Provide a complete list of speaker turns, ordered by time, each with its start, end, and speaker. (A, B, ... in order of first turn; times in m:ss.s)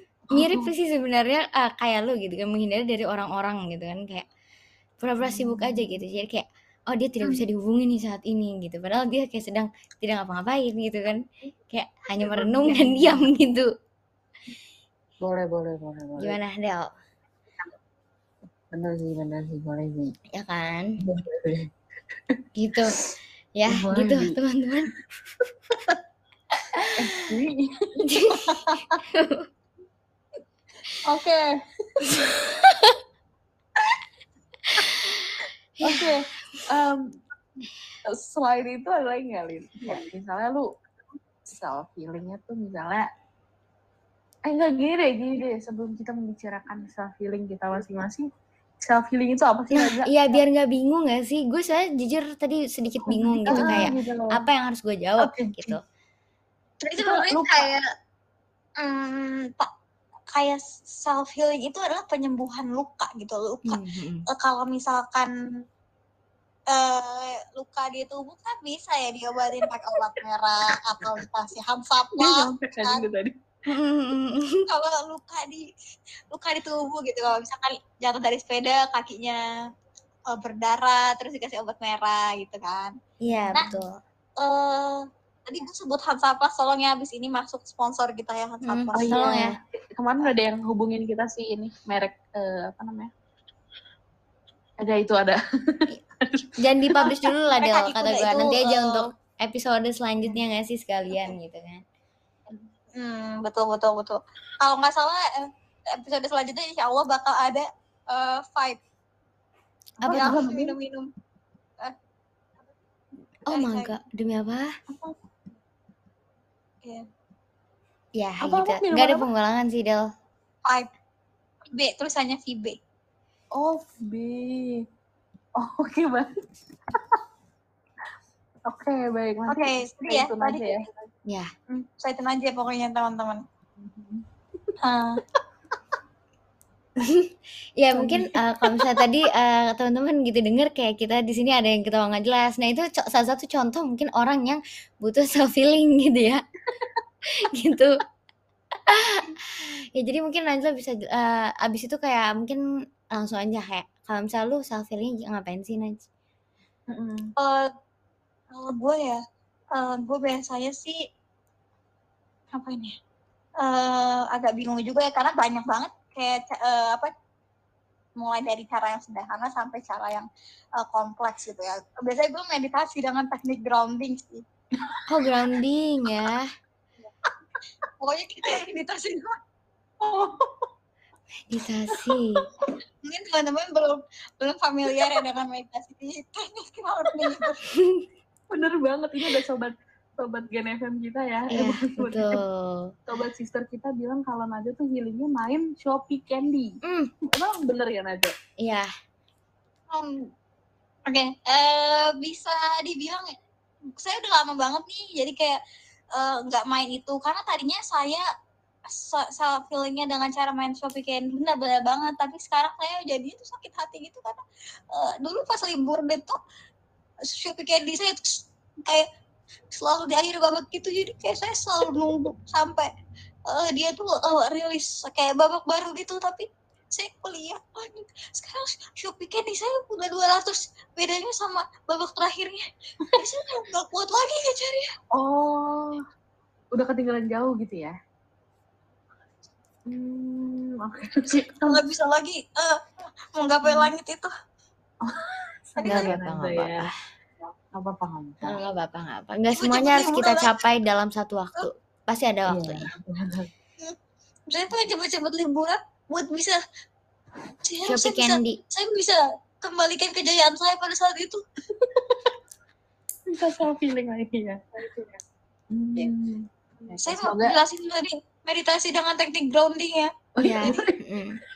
0:00.3-0:00.7 A
0:00.3-0:04.2 B
0:05.0-0:13.7 B
0:05.2-0:05.8 A
0:12.2-0:13.3 A
0:15.2-0:16.4 A
0:16.2-0:16.9 B
0:18.7-0:20.1 A
0:20.3-0:21.0 B
0:21.0-0:21.7 A
0:22.6-0:23.0 B
0:23.6-0:24.9 B
0:23.6-0:24.4 A
0:26.9-0:28.8 A
0:28.0-0:28.5 B
0:29.1-0:29.4 B
0:32.6-0:32.9 B
0:34.7-0:36.1 B
0:35.8-0:37.2 A
0:38.0-0:40.7 A
0:41.4-0:43.1 A
0:44.4-0:48.3 A
0:48.8-0:50.1 A
0:50.0-0:55.8 B
0:53.0-0:54.3 A
0:53.5-0:53.9 C
0:56.8-0:57.8 C
0:57.0-0:57.7 A
0:58.8-0:59.7 C
1:00.3-1:05.6 C
1:03.7-1:04.2 B
1:06.7-1:13.0 C
1:12.1-1:13.3 A
1:13.7-1:14.6 B
1:14.7-1:15.7 C
1:16.3-1:19.4 C
1:20.3-1:22.9 C
1:23.2-1:23.9 B
1:23.5-1:23.8 C
1:24.4-1:29.3 C
1:28.6-1:29.6 B
1:28.9-1:33.1 A
1:34.8-1:37.1 A
1:36.6-1:41.8 B
1:37.5-1:39.0 C
1:43.0-1:48.8 C
1:50.0-1:50.5 B
1:50.0-1:50.8 A
1:50.0-1:51.1 C
1:53.4-1:54.7 B
1:53.5-1:53.9 C
1:58.2-2:00.0 B
1:58.4-1:59.3 A
2:01.7-2:02.8 C
2:03.5-2:04.8 A
2:05.6-2:06.3 A
2:06.9-2:07.2 A
2:08.7-2:10.8 A
2:09.5-2:10.9 C
2:11.7-2:13.4 C
2:13.8-2:14.2 A
2:14.8-2:15.2 C
2:17.0-2:26.4 B
2:17.9-2:19.1 A
2:27.5-2:27.9 B
2:28.9-2:32.6 B
2:33.1-2:36.0 B
2:36.9-2:37.3 A
2:37.4-2:37.7 C
2:38.5-2:39.2 C
2:39.7-2:41.0 C
2:42.5-2:43.0 C
2:43.6-2:47.1 C
2:48.2-2:50.3 C
2:50.8-2:54.4 C
2:55.1-2:56.5 B
2:58.0-2:59.4 C
3:00.0-3:00.5 A
3:01.5-3:02.4 B
3:03.0-3:07.6 C
3:07.7-3:08.0 B
3:08.5-3:12.4 A
3:11.5-3:12.9 B
3:13.1-3:18.3 A
3:16.8-3:17.1 B
3:18.6-3:18.9 B
3:19.9-3:20.3 C
3:21.1-3:23.3 C
3:24.0-3:25.6 C
3:26.1-3:28.2 C
3:28.9-3:34.4 C
3:34.9-3:36.4 C
3:37.2-3:39.1 C
3:39.7-3:42.9 C
3:43.5-3:54.9 C
3:55.1-3:56.0 A
3:56.7-3:58.0 A
3:59.8-4:01.8 A
4:01.6-4:02.8 C
4:03.4-4:04.3 C
4:05.0-4:06.9 A
4:05.8-4:06.1 C
4:05.9-4:06.9 B
4:07.7-4:08.6 A
4:08.4-4:12.9 B
4:09.6-4:10.5 C
4:12.5-4:13.5 A
4:14.5-4:16.6 C
4:17.6-4:21.4 C
4:17.8-4:18.6 B
4:21.8-4:22.1 A
4:23.3-4:24.9 A
4:25.7-4:27.6 A
4:27.0-4:30.8 C
4:30.3-4:31.0 A
4:30.4-4:31.4 B